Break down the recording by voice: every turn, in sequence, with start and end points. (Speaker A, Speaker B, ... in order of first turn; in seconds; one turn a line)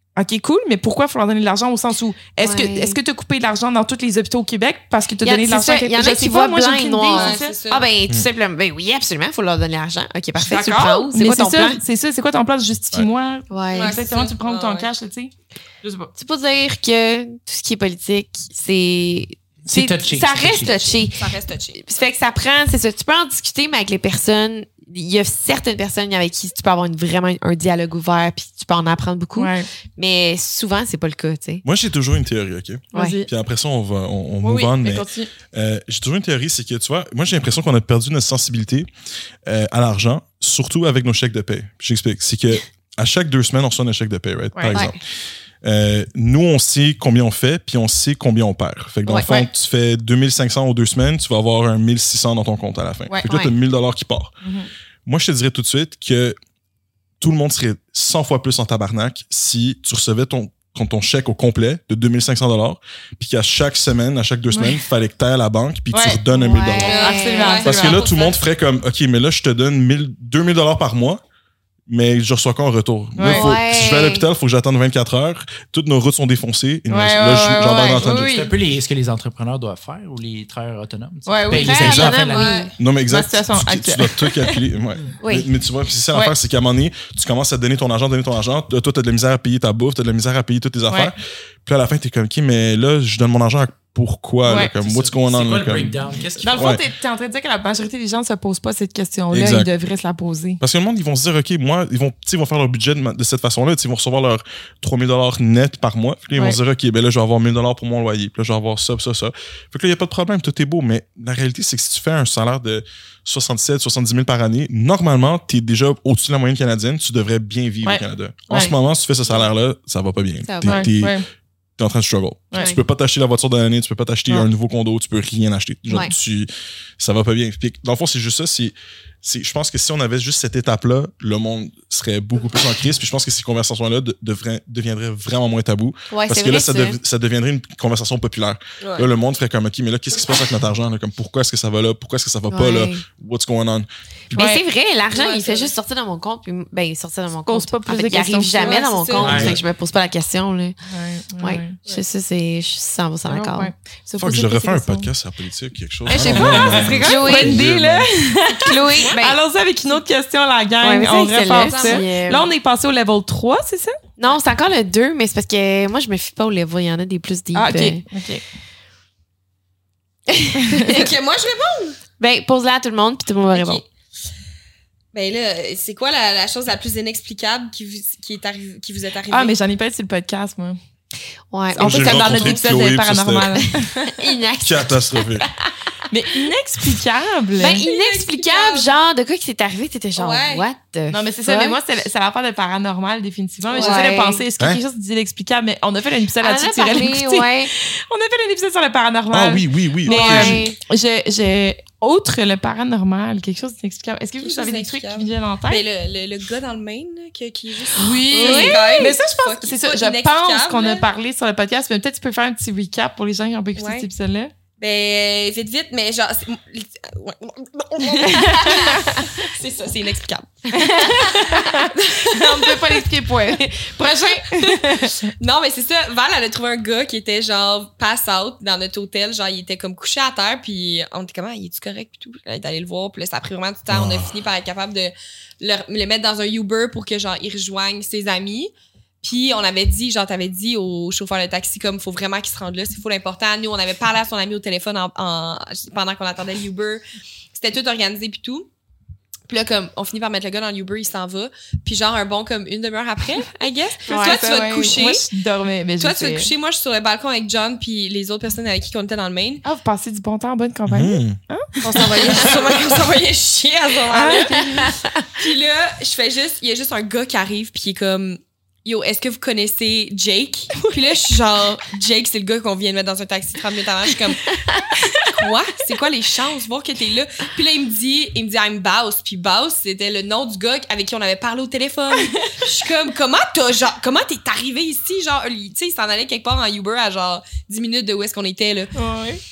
Speaker A: 0.1-7.6
Speaker B: 2.4-3.0
Speaker B: 5.2-11.8
Speaker C: 7.1-7.8
Speaker A: 10.4-15.3
Speaker B: 13.5-14.0
Speaker C: 13.7-14.9
Speaker A: 15.8-16.1
Speaker B: 16.1-31.6
Speaker D: 19.6-21.0
Speaker C: 21.1-21.8
Speaker A: 29.3-29.7
Speaker E: 31.6-38.9
Speaker A: 32.9-33.3
Speaker A: 34.4-35.3
Speaker E: 39.5-45.0
Speaker A: 44.5-44.9
Speaker B: 44.7-45.0
Speaker E: 45.6-54.3
Speaker B: 53.2-53.5
Speaker A: 54.4-54.7
Speaker E: 55.0-56.4
Speaker E: 57.2-67.0
Speaker A: 64.5-64.8
Speaker A: 65.9-68.0
Speaker B: 66.5-67.6
Speaker C: 66.8-68.4
Speaker E: 67.6-71.2
Speaker E: 71.9-78.4
Speaker A: 73.2-73.5
Speaker B: 73.2-74.3
Speaker A: 76.9-78.5
Speaker D: 78.0-82.6
Speaker A: 81.2-82.1
Speaker B: 81.5-82.7
Speaker C: 82.2-82.7
Speaker E: 82.8-95.9
Speaker A: 83.0-84.6
Speaker B: 85.2-85.5
Speaker A: 94.5-94.7
Speaker D: 94.8-96.7
Speaker A: 96.4-100.6
Speaker E: 96.5-96.8
Speaker E: 99.3-99.7
Speaker E: 100.6-121.2
Speaker B: 118.5-118.7
Speaker B: 120.4-120.9
Speaker A: 120.6-121.3
Speaker E: 121.8-144.5
Speaker B: 122.5-122.8
Speaker B: 136.1-137.0
Speaker C: 138.8-139.1
Speaker B: 142.5-143.0
Speaker B: 144.3-150.8
Speaker A: 144.3-144.6
Speaker C: 145.1-145.7
Speaker A: 147.4-148.9
Speaker C: 148.6-149.5
Speaker D: 149.2-149.6
Speaker E: 149.2-149.6
Speaker A: 150.9-151.8
Speaker B: 151.4-153.7
Speaker A: 153.2-155.1
Speaker E: 154.2-158.1
Speaker A: 156.1-164.0
Speaker B: 156.1-157.6
Speaker C: 156.4-157.3
Speaker B: 158.6-159.4
Speaker B: 160.8-162.5
Speaker C: 161.6-162.1
Speaker B: 164.2-168.0
Speaker A: 167.5-168.4
Speaker B: 170.3-171.1
Speaker A: 170.7-171.0
Speaker C: 170.8-172.0
Speaker B: 172.2-173.8
Speaker C: 173.5-173.8
Speaker C: 175.1-179.5
Speaker A: 179.3-180.8
Speaker B: 181.5-182.6
Speaker A: 181.7-184.1
Speaker E: 181.8-183.6
Speaker B: 183.6-185.2
Speaker E: 184.6-185.5
Speaker A: 186.1-187.8
Speaker B: 187.6-191.8
Speaker C: 187.6-188.9
Speaker C: 190.2-190.7
Speaker A: 191.1-205.8
Speaker B: 193.7-194.4
Speaker C: 193.7-194.0
Speaker B: 196.4-197.7
Speaker E: 199.3-200.6
Speaker B: 200.1-200.8
Speaker C: 204.4-211.1
Speaker A: 207.9-214.5
Speaker B: 208.0-209.2
Speaker C: 213.8-214.1
Speaker C: 214.8-223.0
Speaker A: 218.3-219.1
Speaker B: 220.8-221.5
Speaker A: 220.8-225.2
Speaker C: 224.5-238.7
Speaker E: 233.9-234.3
Speaker C: 239.2-247.0
Speaker C: 247.5-248.7
Speaker C: 249.5-255.2
Speaker B: 254.1-254.4
Speaker A: 254.1-256.5
Speaker C: 256.0-259.6
Speaker A: 259.6-262.6
Speaker E: 260.9-261.4
Speaker C: 261.8-274.5
Speaker A: 264.1-264.9
Speaker B: 264.7-265.1
Speaker B: 274.5-275.1
Speaker C: 275.1-288.9
Speaker A: 282.2-282.5
Speaker A: 288.9-289.4